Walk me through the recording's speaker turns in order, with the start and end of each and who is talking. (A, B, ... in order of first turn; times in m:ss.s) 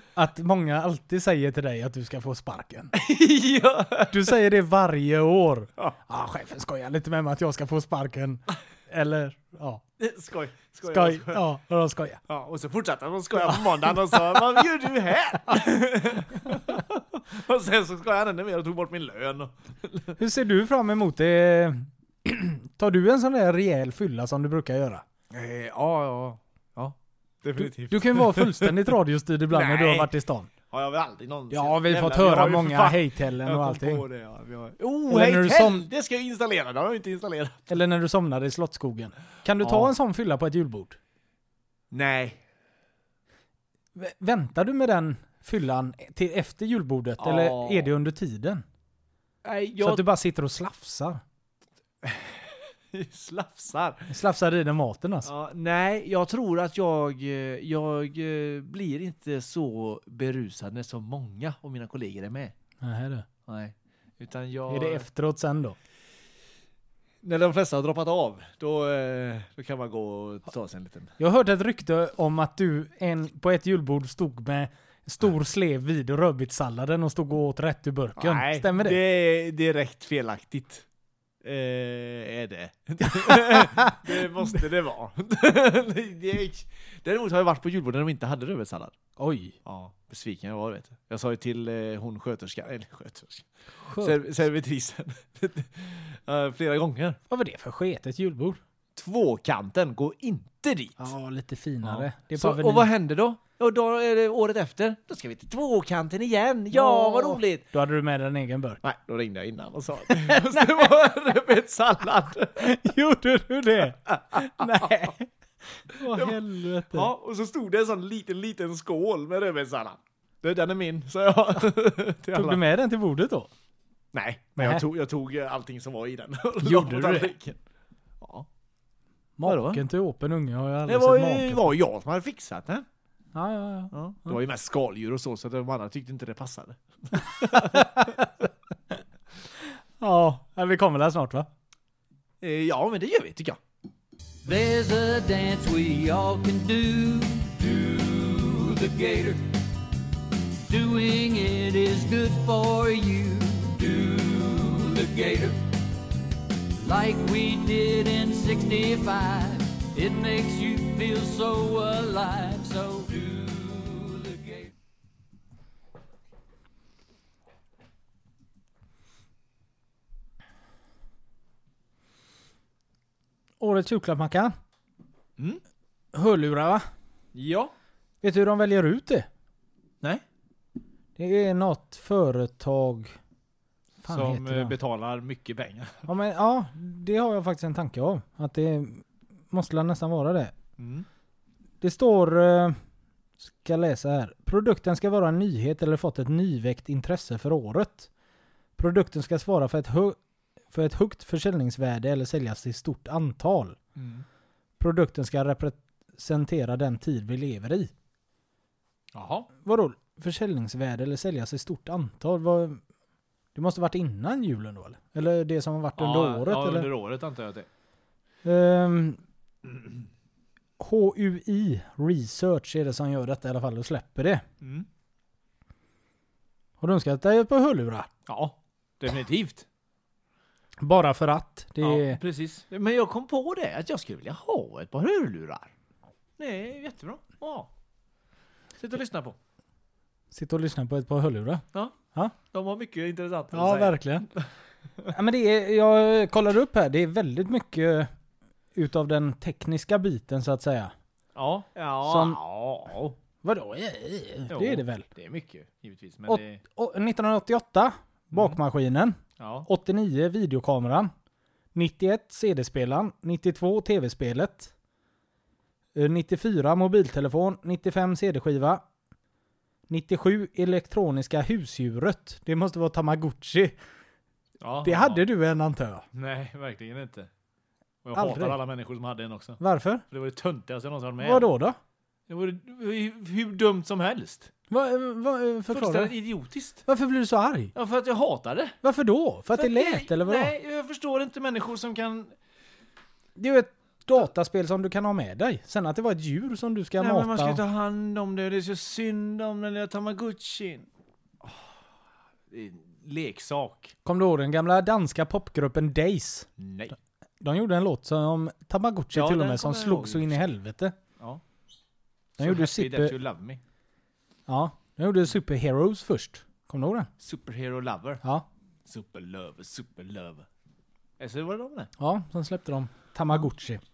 0:00.1-0:02.9 A
0:02.9-0:04.3 B
0:04.1-0:09.8 A
0:10.0-0:11.5 B
0:10.8-0:12.2 A
0:12.3-0:20.2 B
0:13.5-0:13.9 A
0:20.2-0:25.0 A
0:25.3-0:28.9 B
0:27.6-0:30.5 A
0:29.5-0:30.1 B
0:30.7-0:37.7 B
0:31.5-0:34.0 A
0:35.1-0:35.9 A
0:37.7-0:41.0 A
0:39.6-0:39.9 B
0:41.9-0:42.4 B
0:44.0-0:48.6 A
0:47.2-0:47.9 B
0:49.4-0:50.0 B
0:49.8-0:51.2 A
0:52.0-0:54.1 B
0:54.1-0:55.3 A
0:55.2-1:02.5 B
1:02.8-1:03.3 A
1:03.5-1:05.1 B
1:04.7-1:05.8 A
1:07.2-1:11.1 B
1:11.2-1:19.0 A
1:18.2-1:20.8 B
1:21.4-1:28.9 B
1:23.0-1:24.4 A
1:29.2-1:29.6 A
1:29.6-1:37.2 B
1:33.9-1:34.2 A
1:37.3-1:38.6 A
1:39.0-1:41.1 B
1:41.0-1:42.9 A
1:41.8-1:47.6 B
1:46.7-1:48.8 A
1:48.8-1:52.7 B
1:50.0-1:50.9 A
1:52.6-1:55.3 A
1:54.3-1:55.1 B
1:55.9-1:57.1 A
1:55.9-2:02.6 B
2:02.3-2:03.5 A
2:04.1-2:07.6 B
2:04.6-2:04.8 A
2:06.6-2:07.4 A
2:08.2-2:08.5 B
2:09.4-2:11.7 A
2:09.4-2:09.8 B
2:10.9-2:12.8 B
2:13.3-2:14.4 A
2:13.9-2:18.2 B
2:17.5-2:18.2 A
2:20.0-2:21.5 A
2:22.4-2:23.6 B
2:24.4-2:29.5 C
2:30.7-2:35.6 C
2:36.8-2:44.7 C
2:53.6-2:54.6 A
2:56.1-2:56.8 A
2:57.3-2:57.7 B
2:58.2-2:59.3 A
3:01.2-3:03.2 A
3:04.0-3:06.1 B
3:04.0-3:04.8 A
3:06.1-3:10.5 A
3:10.8-3:11.1 B
3:11.8-3:12.8 A
3:13.4-3:18.1 A
3:18.8-3:20.2 A
3:20.7-3:23.8 A
3:24.0-3:24.2 B
3:24.8-3:27.9 A
3:29.1-3:29.5 B
3:29.6-3:32.8 A
3:33.6-3:36.9 A
3:36.0-3:37.7 B
3:38.4-3:39.2 A
3:40.8-3:44.4 A
3:44.6-3:44.9 B
3:46.8-3:48.1 A
3:48.3-3:49.7 B
3:50.8-3:52.2 A
3:51.8-3:55.7 B
3:56.4-3:57.7 B
3:58.8-3:59.4 B
4:00.3-4:01.6 A
4:02.5-4:04.5 B
4:03.5-4:04.3 A
4:05.1-4:08.1 A
4:08.8-4:10.9 A
4:11.4-4:13.2 B
4:12.0-4:12.4 A
4:13.4-4:15.0 A
4:14.5-4:16.6 B
4:16.3-4:21.1 A
4:18.3-4:18.6 B
4:19.4-4:19.7 B
4:21.7-4:24.7 A
4:26.0-4:28.8 A
4:29.9-4:33.8 A
4:34.6-4:35.3 B
4:34.8-4:36.0 A
4:36.1-4:37.3 B
4:38.0-4:39.6 B
4:38.1-4:38.6 A
4:39.6-4:40.0 A
4:40.1-4:41.5 B
4:41.2-4:41.8 A
4:42.3-4:44.5 B
4:44.7-4:46.2 A
4:45.7-4:46.8 B
4:46.9-4:47.7 A
4:47.7-4:48.8 B
4:48.8-4:50.5 A
4:49.5-4:52.3 B
4:53.4-4:57.6 A
4:57.0-5:00.9 B
5:01.4-5:01.7 B
5:02.5-5:03.9 B
5:04.0-5:06.5 A
5:06.6-5:07.0 B
5:07.4-5:11.0 A
5:09.1-5:10.5 B
5:12.4-5:13.2 A
5:12.4-5:13.6 B
5:14.5-5:17.1 A
5:17.2-5:18.2 B
5:18.9-5:20.5 B
5:21.2-5:21.9 B
5:22.0-5:23.8 A